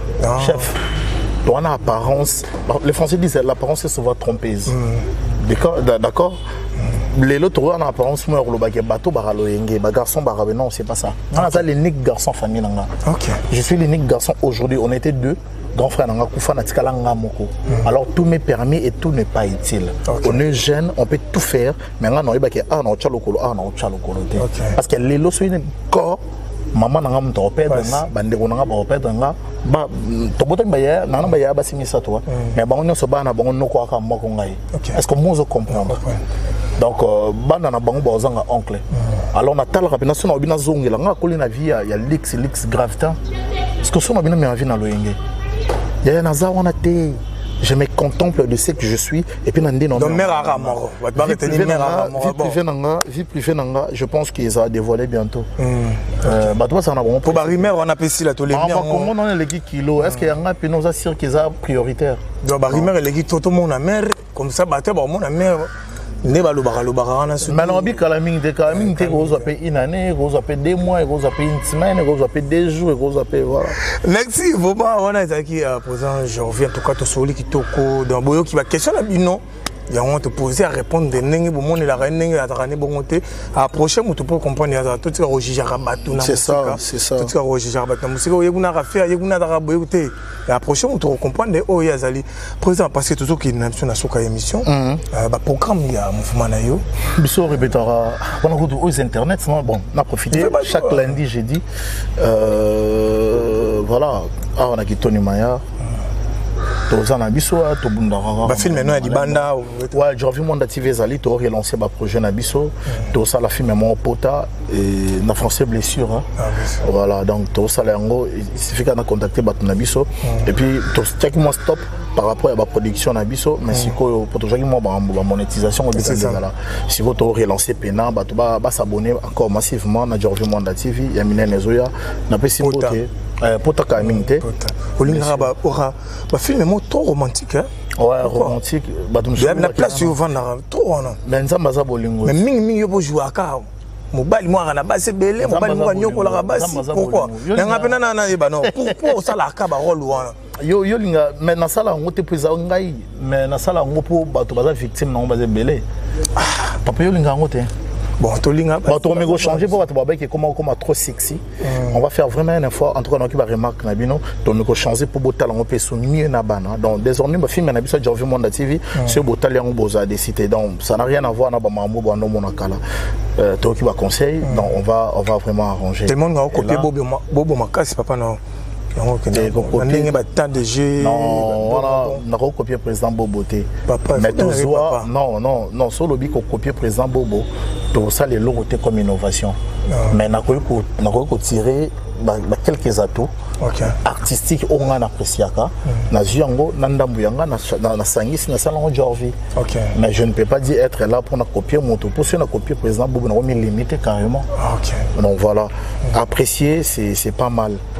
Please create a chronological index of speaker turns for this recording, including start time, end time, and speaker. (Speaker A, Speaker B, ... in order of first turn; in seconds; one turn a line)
Speaker A: 0.2-0.7
Speaker B: 0.3-0.7
Speaker B: 1.4-4.8
Speaker A: 4.7-5.1
Speaker B: 5.4-6.4
Speaker B: 7.1-12.9
Speaker A: 11.3-11.6
Speaker A: 13.0-13.4
Speaker B: 13.5-26.2
Speaker A: 20.1-20.4
Speaker A: 24.4-24.8
Speaker B: 26.7-36.0
Speaker A: 27.7-28.0
Speaker A: 34.7-35.0
Speaker A: 35.7-36.2
Speaker B: 36.8-43.2
Speaker B: 43.8-45.2
Speaker B: 46.0-55.5
Speaker A: 49.9-52.6
Speaker A: 55.6-56.5
Speaker B: 56.2-57.7
Speaker A: 57.2-59.1
Speaker B: 58.5-62.9
Speaker A: 62.4-65.7
Speaker A: 66.2-67.9
Speaker B: 67.4-73.8
Speaker A: 68.7-69.5
Speaker A: 73.9-96.8
Speaker B: 86.1-87.3
Speaker B: 94.6-95.0
Speaker B: 97.2-101.6
Speaker A: 100.3-101.1
Speaker B: 102.2-105.6
Speaker B: 106.9-116.3
Speaker A: 108.4-110.0
Speaker A: 116.4-116.8
Speaker B: 116.8-134.4
Speaker A: 125.9-126.4
Speaker A: 132.6-133.0
Speaker A: 134.0-137.7
Speaker B: 135.0-135.5
Speaker B: 137.9-140.2
Speaker A: 138.2-138.6
Speaker A: 139.4-141.2
Speaker B: 141.2-142.4
Speaker A: 142.2-150.3
Speaker B: 145.4-148.0
Speaker B: 148.6-149.2
Speaker B: 150.6-155.8
Speaker A: 156.4-156.7
Speaker B: 156.7-157.7
Speaker A: 158.2-159.7
Speaker B: 158.8-172.8
Speaker A: 161.6-162.0
Speaker B: 173.3-176.9
Speaker A: 174.4-174.7
Speaker A: 176.1-178.4
Speaker A: 178.9-182.2
Speaker B: 179.3-180.2
Speaker B: 181.0-189.6
Speaker A: 183.9-185.1
Speaker A: 189.9-190.2
Speaker B: 190.1-193.3
Speaker A: 193.6-194.0
Speaker B: 193.9-199.4
Speaker A: 199.6-199.9
Speaker B: 199.9-204.5
Speaker A: 204.6-205.1
Speaker B: 205.1-207.8